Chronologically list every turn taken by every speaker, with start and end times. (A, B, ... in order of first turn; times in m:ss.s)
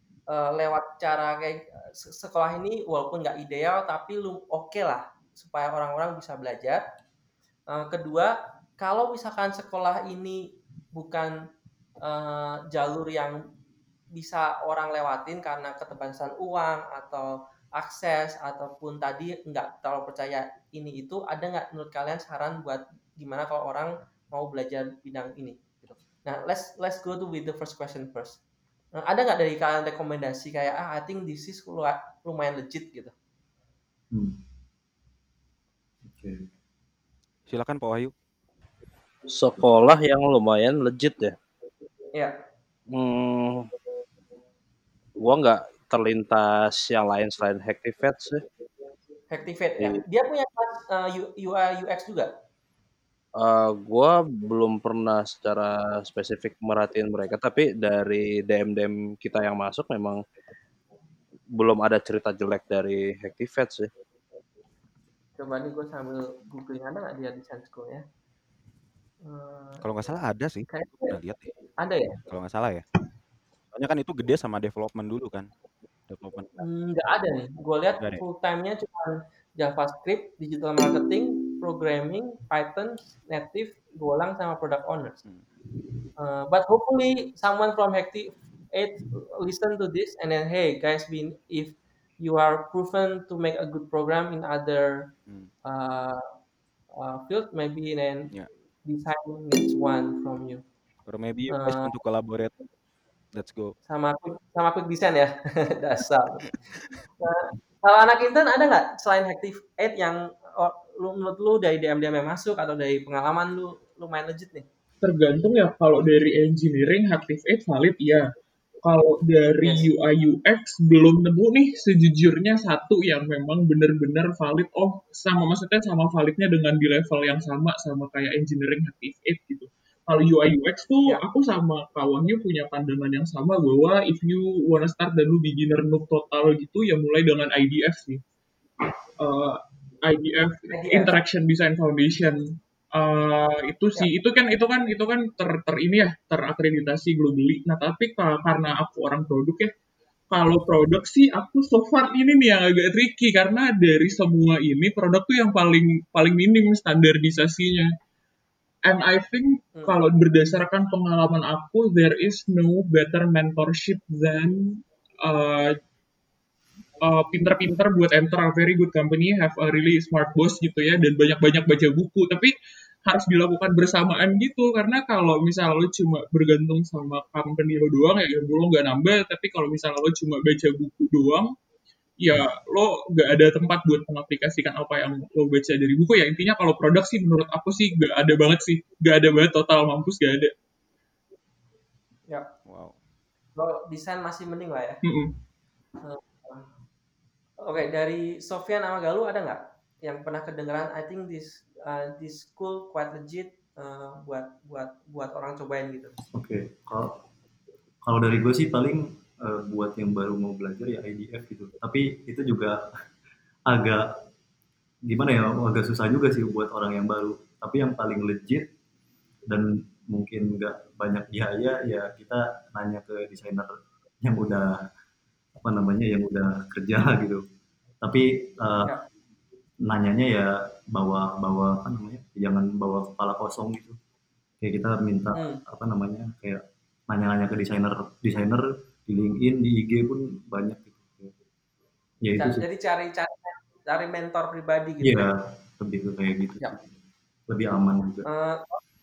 0:00.3-0:06.8 A
0:07.7-0:11.3 A
0:12.0-0:13.4 A
0:14.1-0:28.4 A
0:29.0-0:33.1 A
0:34.1-0:34.4 B
0:36.0-0:36.5 B
0:37.5-0:38.1 C
0:39.3-0:41.3 D
0:42.9-0:43.6 D
0:45.2-0:48.4 D
0:49.3-0:52.3 A
0:53.4-1:00.2 D
1:01.6-1:03.9 D
1:05.4-1:08.0 A
1:09.2-1:09.8 A
1:09.8-1:11.5 C
1:10.7-1:11.2 A
1:11.8-1:12.2 A
1:12.2-1:12.8 C
1:13.7-1:15.5 C
1:16.1-1:16.6 C
1:16.6-1:25.2 A
1:26.2-1:35.1 A
1:35.7-1:36.2 A
1:37.0-1:38.3 A
1:38.9-1:40.6 A
1:41.1-1:42.7 C
1:41.5-1:41.9 A
1:43.3-1:43.8 C
1:43.9-1:46.5 A
1:47.2-1:54.6 A
1:55.0-1:58.3 E
1:58.8-2:18.2 E
1:59.6-1:59.9 A
2:19.2-2:29.7 E
2:20.7-2:21.1 A
2:30.3-2:37.9 E
2:38.8-2:45.8 E
2:47.0-2:52.5 E
2:53.0-3:01.5 E
3:02.2-3:10.5 E
3:12.7-3:13.0 C
3:13.6-3:15.0 A
3:15.0-3:15.3 E
3:16.0-3:16.7 A
3:17.6-3:26.1 A
3:26.3-3:27.2 B
3:28.0-3:32.8 B
3:33.7-3:34.0 B
3:35.0-3:38.7 B
3:39.5-3:44.9 B
3:45.6-3:47.4 B
3:48.0-3:48.9 B
3:49.8-3:54.0 B
3:54.6-4:01.3 B
3:55.3-3:55.6 A
4:02.2-4:02.7 B
4:02.4-4:05.3 A
4:05.0-4:06.8 B
4:07.5-4:08.3 B
4:08.2-4:08.8 A